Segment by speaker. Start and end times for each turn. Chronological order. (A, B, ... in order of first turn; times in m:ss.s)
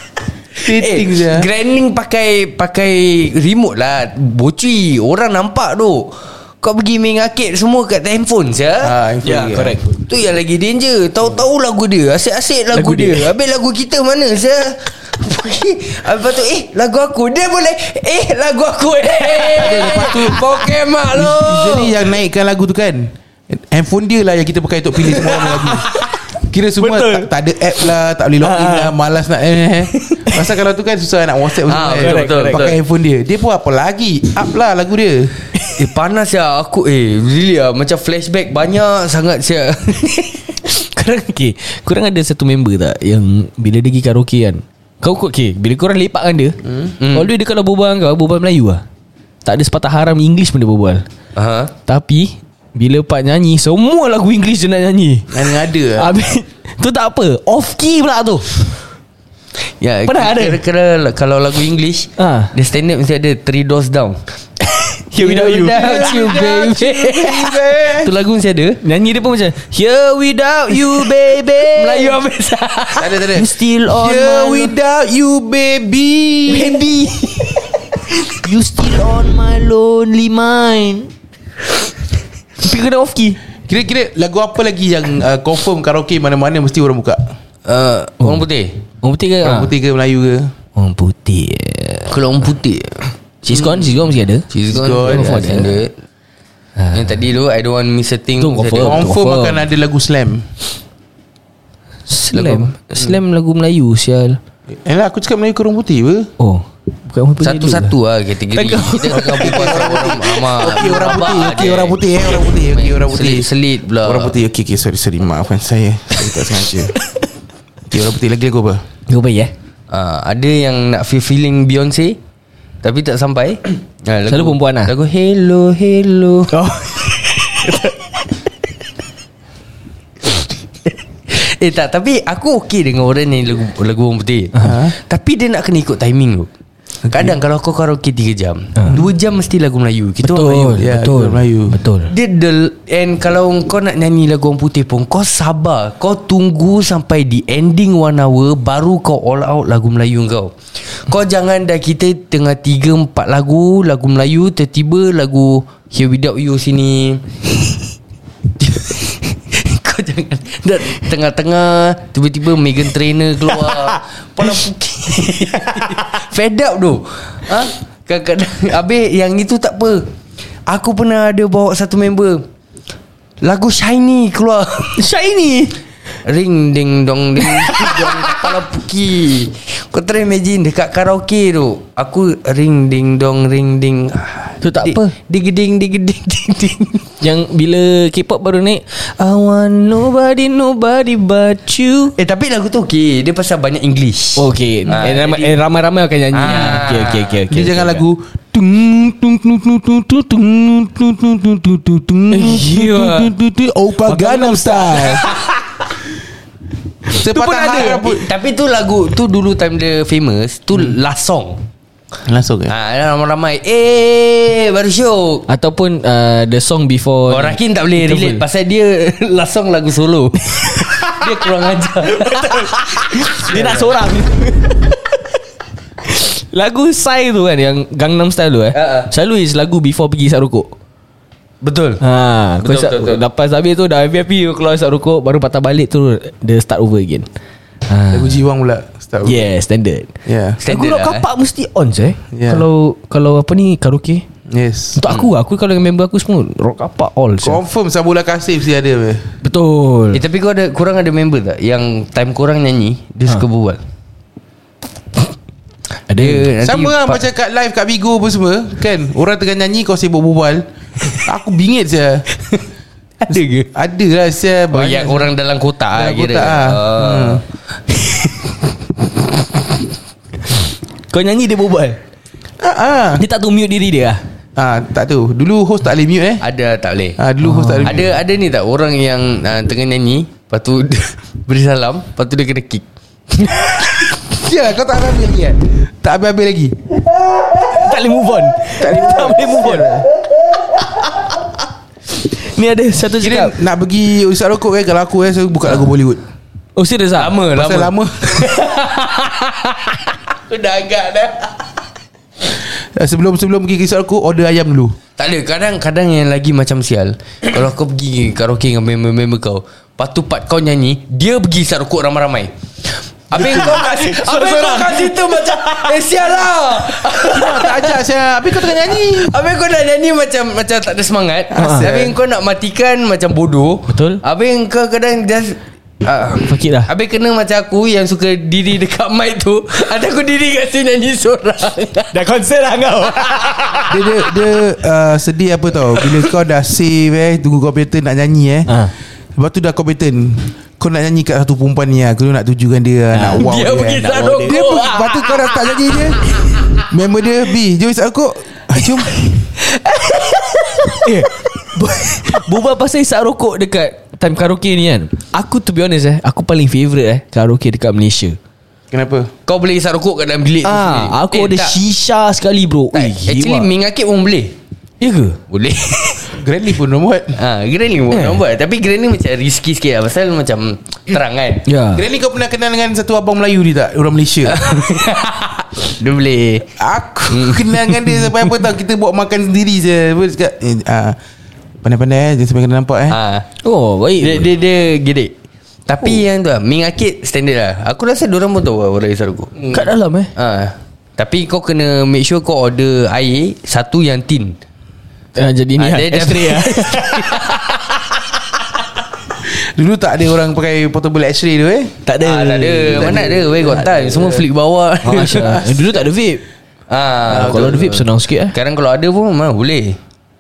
0:00.6-0:01.5 A
0:00.6-0:08.9 B
0:08.8-0:09.8 A
0:09.2-0:10.0 C
0:10.1-0:21.9 B
0:12.7-0:13.3 C
0:19.2-0:20.3 C
0:19.6-0:20.5 A
0:21.1-0:25.9 A
0:25.1-0:26.1 C
0:26.4-0:35.3 A
0:26.8-0:27.3 C
0:28.4-0:29.0 C
0:29.9-0:30.6 C
0:31.7-0:32.8 B
0:31.8-0:32.8 C
0:35.6-0:35.9 C
0:35.8-0:40.6 B
0:40.6-0:46.6 C
0:47.0-0:47.3 B
0:47.1-0:48.8 C
0:49.4-0:51.0 C
0:51.4-0:51.7 B
0:51.9-0:58.7 C
0:55.3-0:56.1 A
0:59.6-1:04.2 B
1:00.1-1:00.6 C
1:02.2-1:02.5 C
1:04.6-1:06.3 C
1:05.2-1:08.8 B
1:05.7-1:08.1 A
1:08.8-1:12.2 C
1:11.6-1:13.2 B
1:13.0-1:16.9 A
1:13.3-1:14.8 C
1:16.5-1:17.7 C
1:18.4-1:21.1 C
1:22.6-1:23.4 C
1:23.7-1:27.2 A
1:27.7-1:28.8 B
1:29.0-1:29.7 C
1:29.4-1:30.5 A
1:30.8-1:32.2 C
1:32.1-1:33.9 B
1:33.4-1:35.8 C
1:34.5-1:35.9 B
1:34.7-1:35.6 A
1:36.8-1:37.2 C
1:36.9-1:39.0 B
1:38.4-1:39.6 C
1:38.8-1:40.5 A
1:42.1-1:44.4 C
1:42.3-1:42.7 B
1:44.8-1:46.3 A
1:46.4-1:48.0 C
1:47.4-1:52.0 B
1:48.5-1:50.7 C
1:49.3-1:53.5 A
1:52.7-1:54.4 B
1:54.0-1:57.0 A
1:57.9-1:58.8 A
1:59.1-1:59.5 C
1:59.9-2:02.2 B
2:02.8-2:06.5 B
2:04.3-2:04.9 C
2:06.5-2:08.2 C
2:11.3-2:16.5 B
2:14.6-2:14.9 A
2:17.1-2:20.8 B
2:20.2-2:22.1 C
2:20.8-2:21.8 A
2:22.1-2:37.2 B
2:38.6-2:50.1 B
2:43.5-2:46.0 C
2:50.7-2:52.4 B
2:53.4-2:55.0 B
2:55.0-2:55.8 C
2:56.2-3:07.2 B
2:57.4-2:58.4 C
3:04.6-3:05.1 C
3:07.2-3:12.2 C
3:12.2-3:15.6 B
3:14.4-3:18.0 C
3:16.3-3:17.4 B
3:17.5-3:25.3 A
3:22.3-3:23.3 B
3:24.0-3:25.5 C
3:27.1-3:28.0 C
3:27.2-3:28.2 A
3:27.3-3:31.6 B
3:32.3-3:32.7 A
3:32.7-3:35.5 B
3:35.5-3:38.4 C
3:37.3-3:43.9 B
3:40.5-3:41.4 C
3:42.0-3:45.3 C
3:46.0-3:50.7 C
3:48.7-3:49.1 B
3:51.6-3:52.0 B
3:52.0-3:57.3 C
3:52.6-3:53.2 B
3:57.9-3:58.4 C
3:58.1-3:59.4 A
3:59.2-4:00.1 C
4:00.3-4:00.6 A
4:00.6-4:01.3 B
4:00.7-4:04.2 C
4:02.3-4:02.7 A
4:04.5-4:05.0 A
4:05.0-4:07.6 C
4:07.4-4:09.3 A
4:09.4-4:10.2 C
4:10.1-4:13.8 B
4:16.1-4:16.5 C
4:16.1-4:17.2 B
4:16.6-4:20.7 A
4:21.2-4:22.2 A
4:23.3-4:23.7 B
4:23.7-4:25.3 A
4:24.7-4:27.4 B
4:25.9-4:27.4 A
4:31.1-4:32.0 C
4:32.6-4:33.2 A
4:33.2-4:34.2 C
4:34.6-4:36.4 A
4:36.4-4:37.2 B
4:37.2-4:38.1 A
4:37.4-4:38.0 C
4:37.8-4:42.8 B
4:43.5-4:43.8 C
4:44.3-4:46.8 A
4:47.6-4:50.1 C
4:48.8-4:50.0 A
4:52.2-4:53.6 C
4:53.2-4:56.2 A
4:56.8-4:57.4 C
4:57.2-5:01.6 B
4:57.5-4:58.6 A
5:03.0-5:05.0 A
5:05.2-5:12.5 B
5:13.3-5:18.0 B
5:13.3-5:16.3 C
5:17.2-5:19.3 A
5:18.9-5:32.2 B
5:21.6-5:21.9 C
5:21.6-5:22.1 A
5:23.9-5:24.2 C
5:26.4-5:26.9 C
5:32.1-5:34.2 C
5:33.9-5:38.8 A
5:38.7-5:38.9 C
5:39.4-5:46.2 A
5:43.1-5:45.2 C
5:43.4-5:45.3 B
5:46.9-5:49.1 A
5:49.9-5:51.0 B
5:50.9-5:58.4 C
5:58.9-5:59.3 A
5:59.5-6:01.8 B
6:00.6-6:03.7 C
6:02.9-6:04.6 B
6:05.0-6:05.4 C
6:05.5-6:06.2 B
6:06.3-6:07.4 A
6:07.4-6:11.7 B
6:08.1-6:08.4 C
6:11.7-6:12.1 C
6:12.0-6:14.7 A
6:14.5-6:16.7 B
6:16.8-6:21.2 A
6:17.3-6:18.1 B
6:21.8-6:23.2 A
6:23.1-6:23.5 B
6:23.6-6:24.5 C
6:24.2-6:25.3 B
6:25.9-6:29.7 B
6:29.7-6:30.3 C
6:30.4-6:34.6 B
6:35.4-6:37.6 C
6:35.8-6:37.8 B
6:39.4-6:41.9 A
6:42.1-6:44.3 C
6:42.2-6:45.6 B
6:43.0-6:44.2 A
6:45.0-6:46.4 C
6:45.3-6:46.0 A
6:46.9-6:50.0 B
6:47.3-6:48.0 A
6:47.3-6:48.6 C